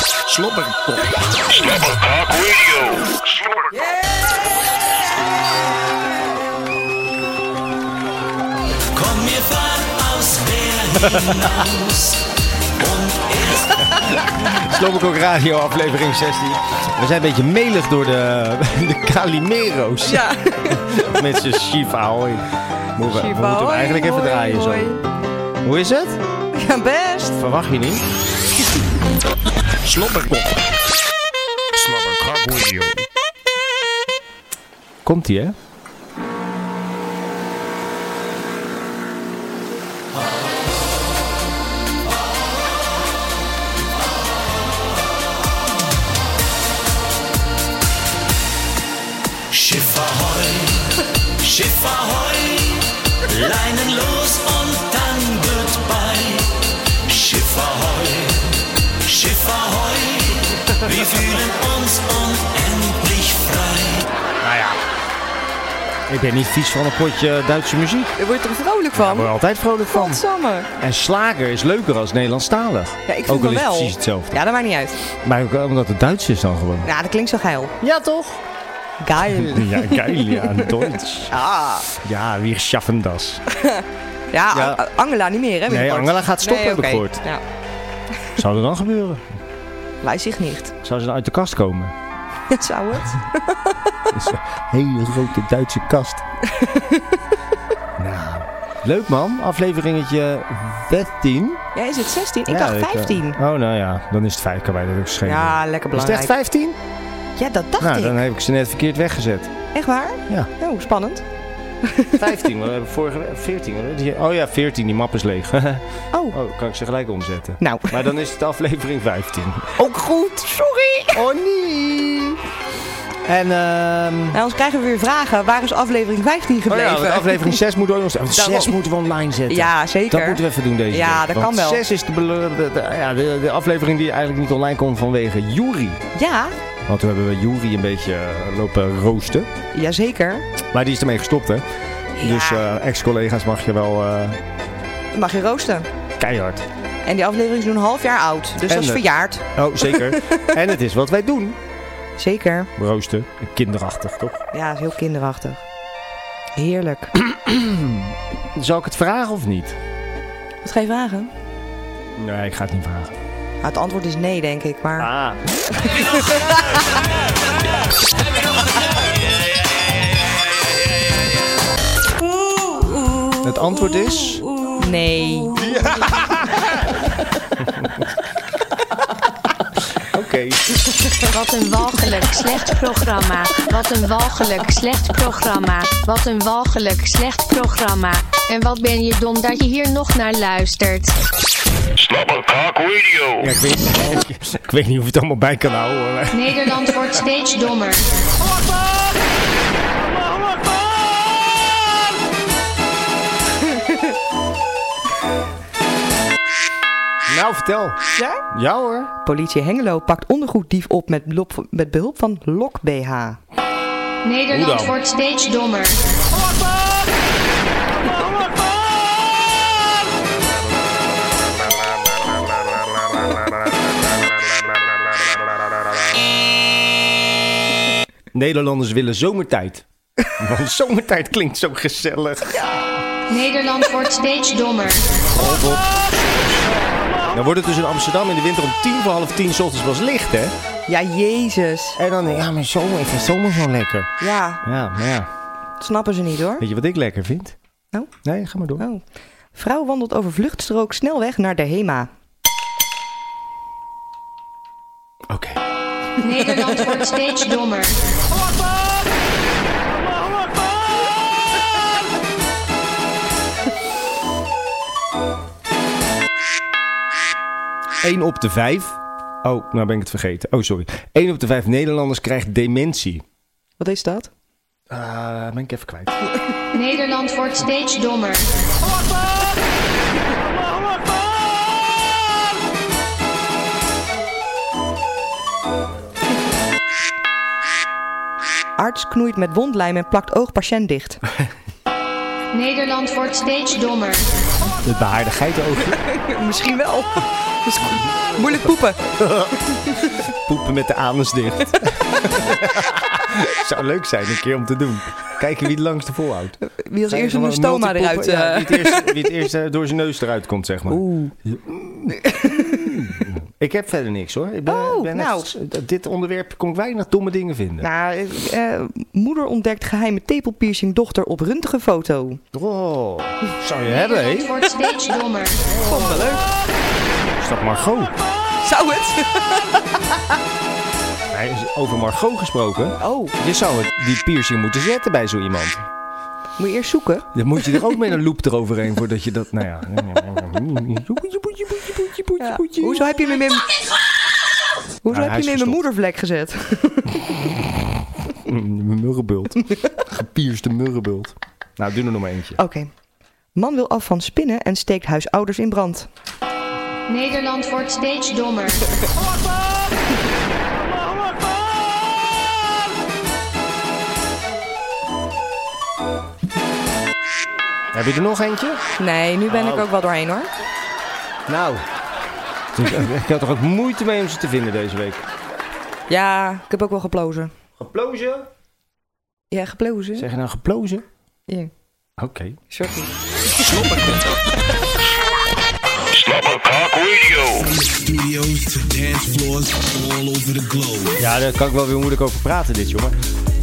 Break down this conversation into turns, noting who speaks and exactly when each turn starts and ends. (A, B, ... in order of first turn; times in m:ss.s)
0:00.2-0:01.1 A
0:01.9-0:03.0 B
0:09.0-0:12.2 C
0:12.8-0:13.6 C
0:14.0-0:22.4 A
0:20.0-0:21.2 D
0:23.0-0:24.9 A
0:23.0-0:25.0 D
0:25.6-0:26.2 A
0:26.5-0:27.4 D
0:27.4-0:28.0 A
0:29.8-0:30.6 A
0:31.8-0:33.0 A
0:35.0-0:35.6 A
0:49.5-0:50.8 C
0:51.4-0:56.5 C
0:57.1-0:58.5 C
0:59.1-1:00.3 C
1:00.8-1:04.1 C
1:04.4-1:04.8 A
1:06.1-1:08.1 A
1:08.2-1:09.3 D
1:09.0-1:10.2 A
1:09.9-1:10.7 D
1:10.8-1:14.4 A
1:13.1-1:15.0 D
1:15.2-1:16.9 A
1:16.8-1:17.8 D
1:17.8-1:18.4 A
1:19.0-1:21.9 D
1:19.3-1:21.3 A
1:21.9-1:23.4 A
1:23.6-1:27.4 D
1:24.5-1:24.8 A
1:25.7-1:27.2 A
1:28.4-1:29.3 A
1:30.0-1:30.7 D
1:30.8-1:31.9 A
1:32.5-1:34.0 D
1:34.1-1:36.2 A
1:36.5-1:37.2 D
1:38.0-1:41.6 A
1:41.8-1:43.4 D
1:42.5-1:46.8 A
1:45.2-1:46.3 D
1:47.4-1:48.2 D
1:47.8-1:49.5 A
1:49.7-1:51.2 D
1:51.8-1:52.2 D
1:52.1-1:59.9 A
1:57.6-1:58.1 D
1:59.8-2:01.2 D
2:01.1-2:02.4 A
2:03.2-2:04.4 A
2:04.3-2:07.6 D
2:06.7-2:16.0 A
2:08.3-2:08.8 D
2:09.5-2:11.8 D
2:16.1-2:16.5 D
2:16.9-2:19.5 A
2:19.7-2:20.5 D
2:20.7-2:21.6 A
2:22.2-2:22.6 D
2:22.2-2:24.4 A
2:25.1-2:25.9 D
2:26.2-2:26.7 A
2:27.0-2:30.5 D
2:28.6-2:31.6 A
2:32.2-2:32.7 D
2:32.8-2:34.4 A
2:34.5-2:35.6 D
2:36.6-2:37.1 D
2:37.2-2:39.8 A
2:40.6-2:41.3 D
2:42.2-2:43.1 A
2:43.6-2:45.1 D
2:45.0-2:45.4 A
2:45.7-2:46.8 D
2:53.4-2:54.4 A
2:54.7-2:55.5 D
2:55.6-2:56.7 A
3:00.0-3:00.6 A
3:01.2-3:11.2 E
3:12.0-3:13.3 B
3:13.2-3:16.8 A
3:16.3-3:18.0 E
3:27.3-3:28.0 A
3:28.2-3:28.4 D
3:28.5-3:29.1 A
3:29.2-3:33.4 D
3:34.2-3:36.0 E
3:34.5-3:34.9 A
3:43.1-3:44.7 A
3:48.3-3:52.9 A
3:53.3-3:55.2 E
3:55.3-3:56.7 A
3:57.3-4:00.5 A
4:00.9-4:02.0 D
4:02.0-4:04.1 A
4:04.2-4:04.6 D
4:04.6-4:05.3 A
4:05.8-4:06.6 D
4:06.6-4:07.6 A
4:08.2-4:08.8 A
4:08.8-4:09.0 D
4:09.5-4:12.1 D
4:15.3-4:15.6 A
4:16.2-4:18.0 E
4:28.0-4:33.2 A
4:33.8-4:34.3 D
4:34.9-4:36.2 A
4:36.7-4:38.5 E
4:48.8-4:51.2 D
4:52.5-4:54.3 E
4:54.8-4:56.0 A
4:56.0-4:59.0 D
4:59.0-5:17.9 A
5:06.6-5:09.2 D
5:10.9-5:11.3 D
5:14.7-5:15.5 D
5:17.8-5:22.4 D
5:22.5-5:24.6 A
5:23.9-5:25.6 E
5:25.6-5:26.5 A
5:25.8-5:26.4 D
5:27.4-5:28.1 A
5:28.6-5:29.7 D
5:31.3-5:35.9 A
5:33.0-5:33.3 D
5:36.6-5:37.9 D
5:37.3-5:43.2 A
5:42.4-5:43.8 D
5:45.0-5:47.4 D
5:45.1-5:45.8 A
5:48.3-5:52.6 A
5:52.6-5:52.9 D
5:53.6-5:56.1 D
5:57.1-5:58.9 E
6:07.9-6:08.8 A
6:09.0-6:10.5 D
6:09.5-6:09.9 A
6:11.5-6:11.8 A
6:12.7-6:15.2 A
6:16.1-6:17.5 D
6:17.8-6:18.5 A
6:19.5-6:20.3 D
6:20.2-6:21.0 A
6:22.2-6:22.6 A
6:22.7-6:23.1 D
6:23.7-6:24.1 A
6:26.2-6:27.4 B
6:27.3-6:31.2 F
6:31.2-6:33.2 A